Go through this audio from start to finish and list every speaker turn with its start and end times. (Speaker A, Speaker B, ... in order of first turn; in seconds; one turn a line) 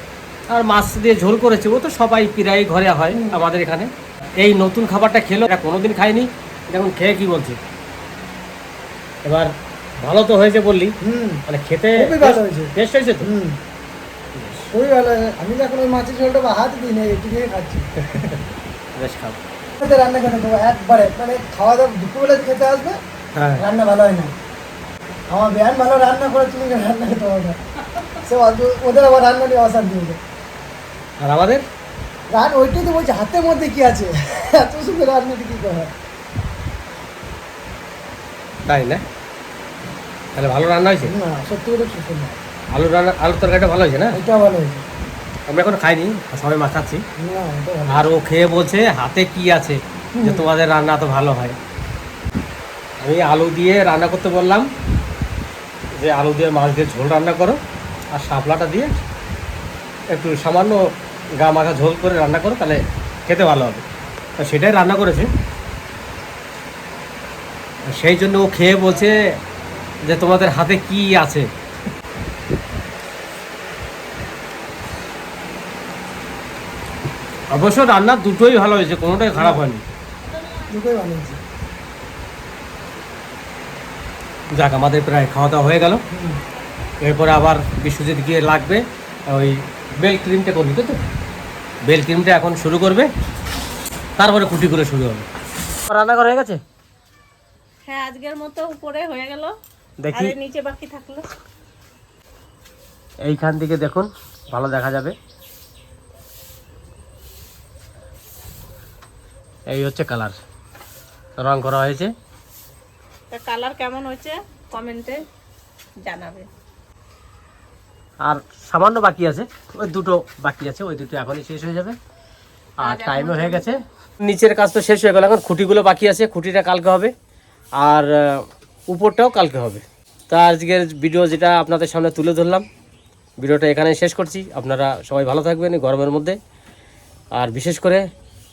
Speaker A: 0.5-7.6
Speaker B: 3.1-3.4
Speaker A: 9.2-10.9
Speaker B: 11.0-11.4
Speaker A: 11.5-13.3
Speaker B: 11.9-13.6
Speaker A: 14.3-14.7
Speaker B: 14.7-18.3
Speaker A: 18.1-18.4
Speaker A: 18.9-19.4
Speaker B: 19.8-23.0
Speaker A: 23.3-23.6
Speaker B: 23.6-24.3
Speaker B: 25.3-27.6
Speaker B: 28.2-30.2
Speaker A: 31.2-31.6
Speaker B: 32.3-35.9
Speaker A: 38.7-39.0
Speaker A: 40.4-41.1
Speaker B: 41.0-42.4
Speaker A: 42.7-44.2
Speaker B: 44.1-44.8
Speaker A: 45.5-47.0
Speaker B: 47.2-48.0
Speaker A: 47.9-51.6
Speaker B: 50.1-50.5
Speaker A: 53.0-54.7
Speaker A: 55.9-57.6
Speaker A: 58.1-58.9
Speaker A: 60.1-63.8
Speaker A: 64.4-65.3
Speaker A: 67.9-69.3
Speaker A: 70.0-71.5
Speaker A: 77.5-79.8
Speaker B: 79.3-79.6
Speaker B: 80.7-81.4
Speaker A: 84.5-86.0
Speaker B: 86.1-86.4
Speaker A: 87.0-91.0
Speaker A: 91.9-93.1
Speaker A: 94.2-95.3
Speaker A: 95.9-96.6
Speaker C: 97.9-99.5
Speaker A: 100.0-100.3
Speaker C: 100.1-101.3
Speaker A: 103.2-105.1
Speaker A: 109.7-110.3
Speaker A: 111.4-112.1
Speaker C: 113.3-115.2
Speaker C: 116.0-116.5
Speaker A: 118.2-122.0
Speaker A: 122.8-127.1
Speaker C: 122.8-123.7
Speaker A: 127.8-132.7
Speaker A: 133.4-136.4
Speaker A: 137.3-138.0